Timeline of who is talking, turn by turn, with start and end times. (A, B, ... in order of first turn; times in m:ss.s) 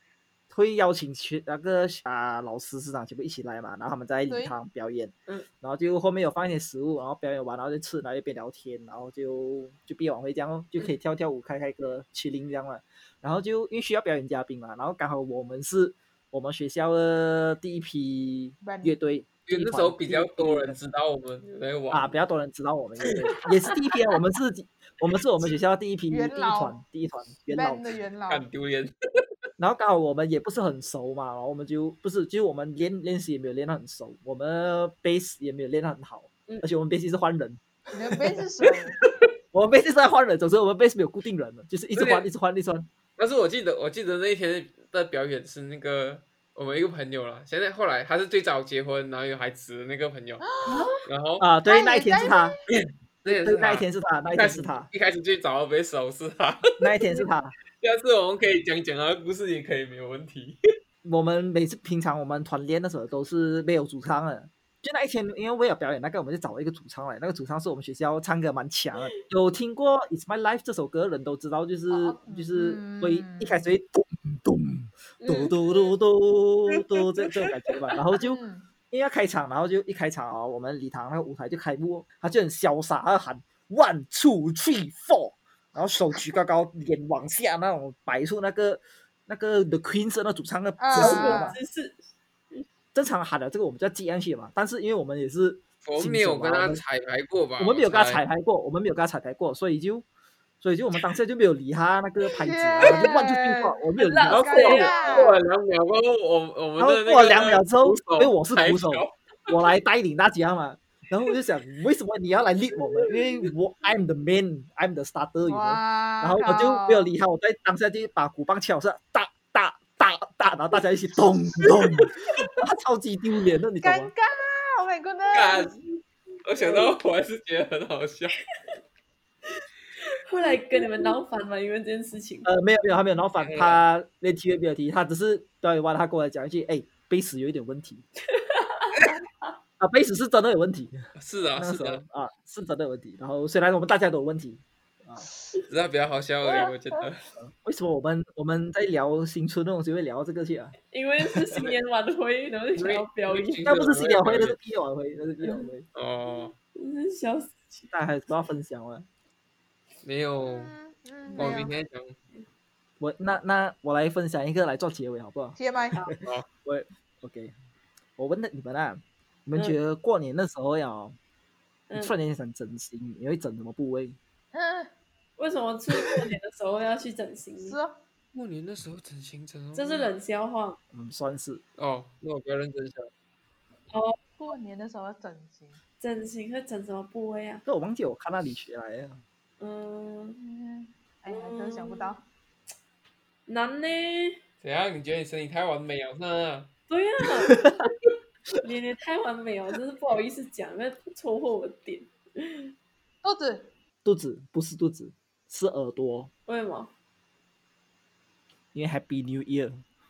0:00.5-0:20.8 A
0:04.3-0:04.5 B
0:18.6-0:19.0 B
0:19.5-0:22.1 C
0:21.9-0:27.9 A
0:26.1-0:26.8 B
0:27.5-0:28.4 B
0:28.3-0:28.9 C
0:29.6-0:37.6 A
0:37.9-0:39.0 B
0:39.5-0:42.9 A
0:41.9-0:42.3 C
0:43.2-0:50.5 C
0:50.4-0:50.9 B
0:50.6-0:51.0 D
0:51.0-0:51.4 C
0:51.4-0:52.6 A
0:51.6-0:52.6 B
0:52.7-0:56.9 C
0:53.2-0:54.9 A
0:56.8-0:57.6 A
0:57.8-1:00.6 C
1:01.0-1:31.6 A
1:11.9-1:13.6 B
1:15.2-1:15.8 D
1:18.2-1:18.7 B
1:30.8-1:31.6 B
1:30.9-1:32.0 D
1:32.9-1:36.8 A
1:35.8-1:38.2 C
1:37.6-1:40.0 A
1:40.6-1:44.9 A
1:42.4-1:45.4 B
1:44.0-1:45.4 D
1:44.3-1:49.2 C
1:46.8-2:04.1 A
1:55.5-1:57.1 B
2:03.8-2:05.7 B
2:05.3-2:05.8 C
2:06.4-2:08.4 C
2:10.2-2:12.5 D
2:12.4-2:18.0 A
2:13.4-2:13.8 C
2:18.3-2:19.0 D
2:19.8-2:21.0 A
2:21.2-2:22.0 C
2:21.6-2:25.3 A
2:25.7-2:27.2 C
2:26.5-2:26.7 D
2:27.4-2:30.8 A
2:30.9-2:33.6 D
2:32.8-2:34.5 C
2:33.6-2:35.8 A
2:35.4-2:35.7 D
2:35.9-2:36.5 C
2:36.3-2:37.9 D
2:37.9-2:39.0 A
2:40.0-2:40.7 C
2:40.4-2:41.8 B
2:41.4-2:42.2 C
2:43.0-2:47.5 A
2:45.6-2:46.0 B
2:48.2-2:51.2 A
2:52.0-2:54.2 A
2:54.5-2:54.9 B
2:55.4-2:57.8 D
2:57.6-2:58.0 B
2:58.3-3:00.1 C
2:59.8-3:00.8 D
3:00.9-3:01.6 A
3:01.8-3:03.1 C
3:03.9-3:04.2 D
3:04.4-3:05.8 B
3:06.0-3:07.6 D
3:07.6-3:09.2 A
3:09.6-3:10.4 D
3:10.4-3:12.2 B
3:11.3-3:12.2 D
3:13.5-3:14.4 D
3:14.6-3:16.7 C
3:16.9-3:17.8 D
3:17.5-3:17.7 A
3:18.6-3:22.7 D
3:23.2-3:23.7 B
3:24.0-3:26.3 A
3:26.5-3:26.9 D
3:28.7-3:29.8 A